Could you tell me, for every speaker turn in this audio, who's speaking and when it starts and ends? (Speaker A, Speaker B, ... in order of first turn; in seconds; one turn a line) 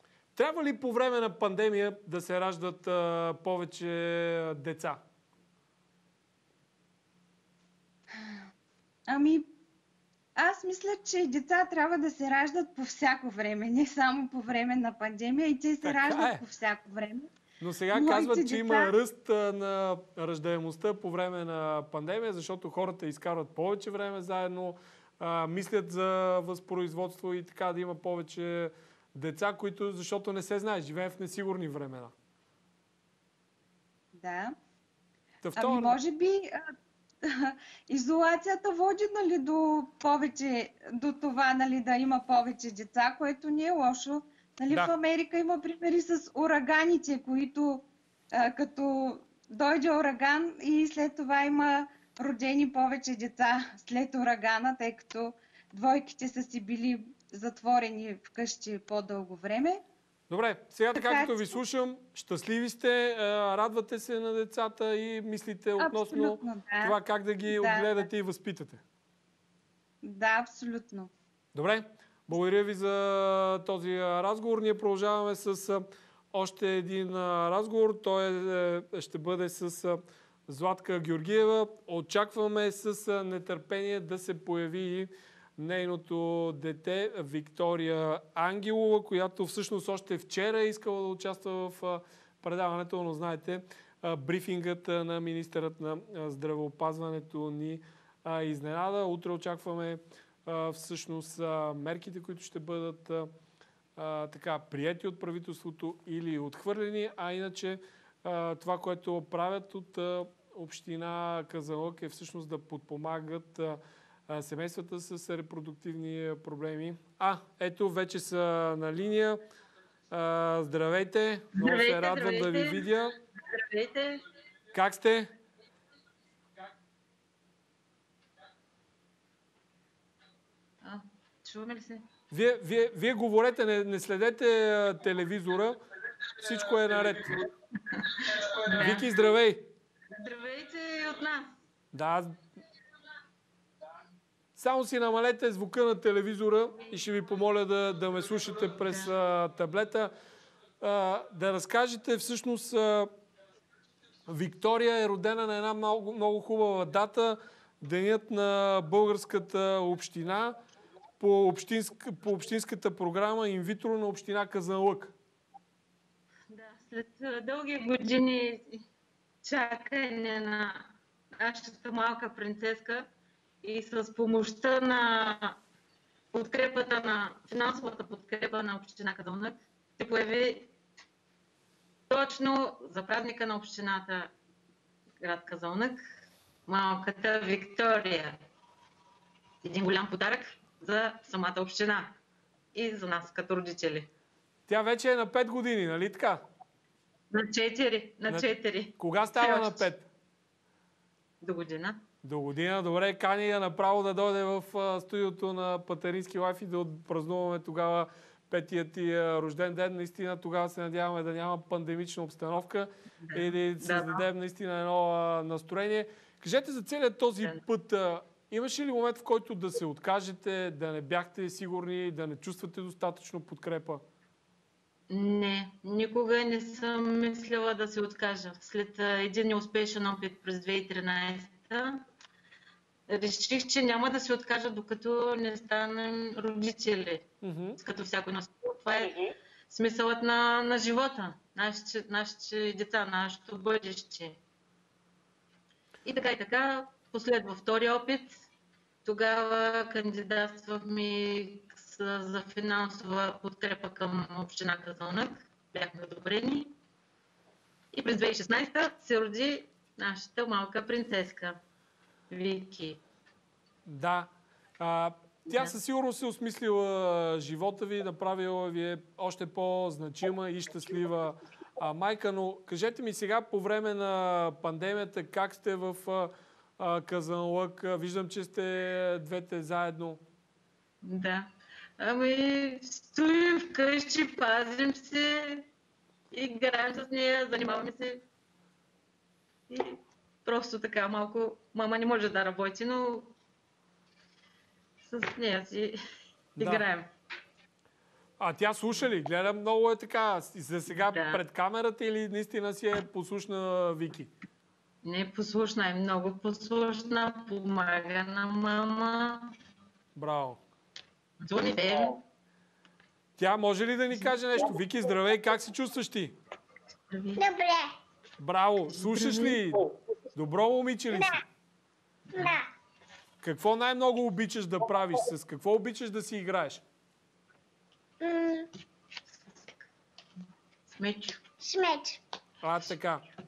Speaker A: 0.3-5.0
Speaker B: 8.1-8.4
Speaker B: 9.1-9.5
Speaker B: 10.4-17.3
Speaker A: 15.8-16.4
Speaker A: 17.6-32.1
Speaker B: 17.9-18.9
Speaker B: 34.1-34.5
Speaker A: 35.4-36.0
Speaker B: 35.5-36.6
Speaker B: 37.2-59.8
Speaker A: 60.3-68.8
Speaker B: 60.9-61.4
Speaker B: 65.8-68.0
Speaker B: 70.0-71.1
Speaker A: 71.5-103.3
Speaker A: 104.0-119.4
Speaker A: 120.1-123.2
Speaker C: 121.5-122.9
Speaker C: 123.4-124.2
Speaker A: 124.7-125.3
Speaker C: 130.8-132.1
Speaker A: 132.3-135.8
Speaker A: 136.4-137.4
Speaker C: 137.9-139.1
Speaker A: 138.8-139.6
Speaker C: 140.1-141.6
Speaker A: 141.9-142.3
Speaker A: 144.6-150.1
Speaker A: 150.8-153.1
Speaker A: 154.3-160.6
Speaker A: 161.2-165.1
Speaker C: 166.5-168.8
Speaker C: 169.4-173.1
Speaker C: 173.6-175.6
Speaker C: 176.3-180.7
Speaker C: 182.1-184.3
Speaker C: 185.2-186.0
Speaker C: 186.7-188.4
Speaker C: 189.6-192.2
Speaker C: 192.7-194.1
Speaker A: 194.7-196.4
Speaker C: 197.3-199.9
Speaker A: 198.3-200.1
Speaker C: 201.4-202.0
Speaker A: 202.2-224.0
Speaker C: 213.2-214.2
Speaker C: 225.1-232.0
Speaker C: 233.1-237.2
Speaker A: 237.4-237.8
Speaker C: 237.8-244.4
Speaker C: 246.0-248.4
Speaker C: 249.0-256.7
Speaker C: 257.9-261.6
Speaker C: 262.3-263.0
Speaker A: 263.9-280.2
Speaker C: 281.0-281.5
Speaker C: 282.0-285.7
Speaker C: 286.3-288.2
Speaker C: 289.7-293.3
Speaker C: 295.0-295.9
Speaker C: 296.6-297.1
Speaker A: 296.6-296.8
Speaker A: 298.4-304.3
Speaker C: 300.9-301.4
Speaker C: 305.0-309.5
Speaker A: 310.1-310.6
Speaker C: 311.4-312.2
Speaker A: 313.4-316.4
Speaker C: 317.1-317.5
Speaker D: 317.4-317.9
Speaker A: 318.4-321.4
Speaker C: 318.9-319.6
Speaker D: 322.3-322.6
Speaker A: 323.4-326.8
Speaker D: 328.2-328.7
Speaker C: 330.9-331.4
Speaker D: 331.6-332.2
Speaker A: 332.6-333.2